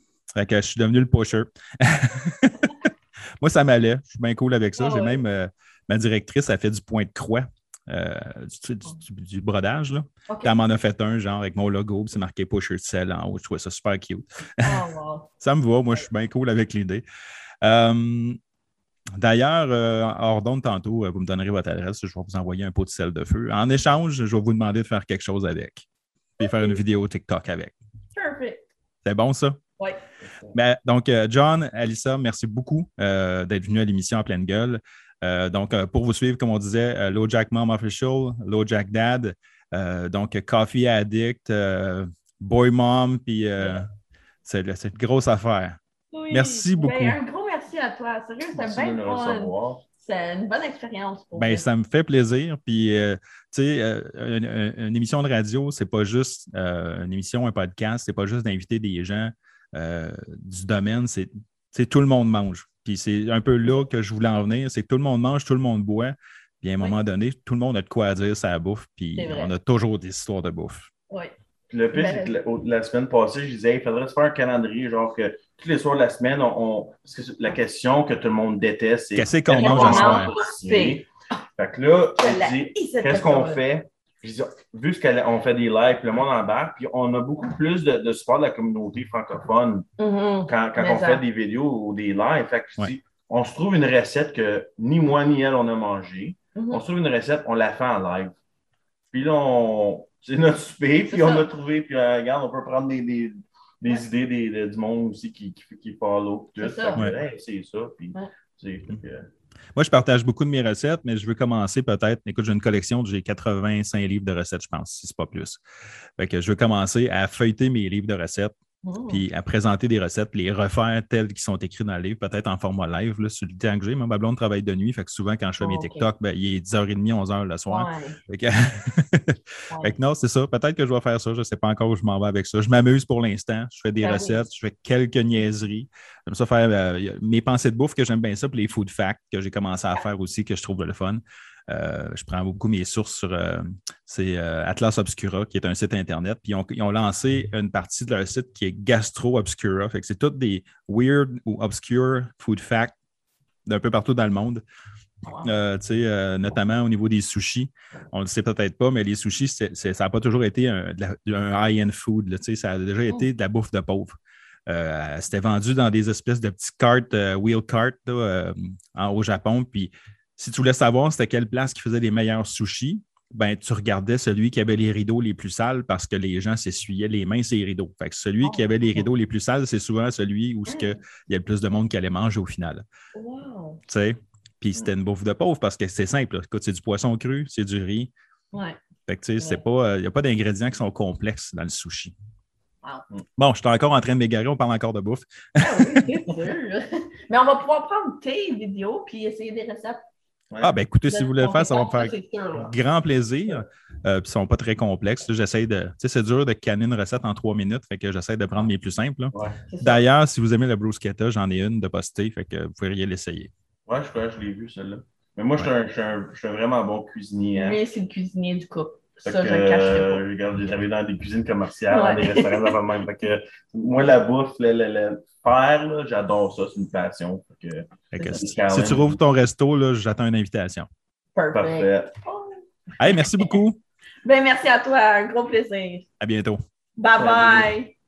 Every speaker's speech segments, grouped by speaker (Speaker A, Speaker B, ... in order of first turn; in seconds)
Speaker A: 0.3-14.7, 15.4-17.0, 17.6-18.4, 19.2-25.9, 26.4-27.8, 29.1-29.6, 30.5-43.9, 44.4-45.8, 46.3-47.2, 51.4-70.9, 79.2-80.3, 109.8-115.6, 116.2-118.5, 119.1-152.9, 153.7-154.6, 155.4-164.2, 164.7-182.8, 183.9-188.1, 189.1-192.1, 193.4-196.1, 200.6-213.5, 228.1-230.9, 233.0-233.8, 236.2-236.6
Speaker B: 4.8-5.2, 10.3-10.6, 14.6-15.3, 26.4-26.8, 28.1-28.6, 46.1-51.7, 69.2-69.5, 71.9-72.3, 79.5-81.0, 82.2-83.6, 90.0-91.2, 96.5-96.8, 101.1-101.5, 106.6-107.0, 118.8-119.2, 125.6-126.1, 127.7-128.2, 129.7-129.9, 134.0-134.5, 155.2-155.6, 178.4-179.1, 180.7-181.0, 183.2-183.8, 188.5-188.8, 195.6-200.0, 201.1-202.8, 209.7-210.1, 217.6-220.2, 221.9-222.8, 228.2-228.5, 231.4-233.5, 234.2-236.1, 237.0-237.9
Speaker C: 48.5-49.8, 71.7-81.0, 81.6-89.9, 90.5-98.3, 99.1-109.3, 209.3-209.6, 213.9-217.8, 219.2-229.2, 231.5-232.1, 237.2-237.7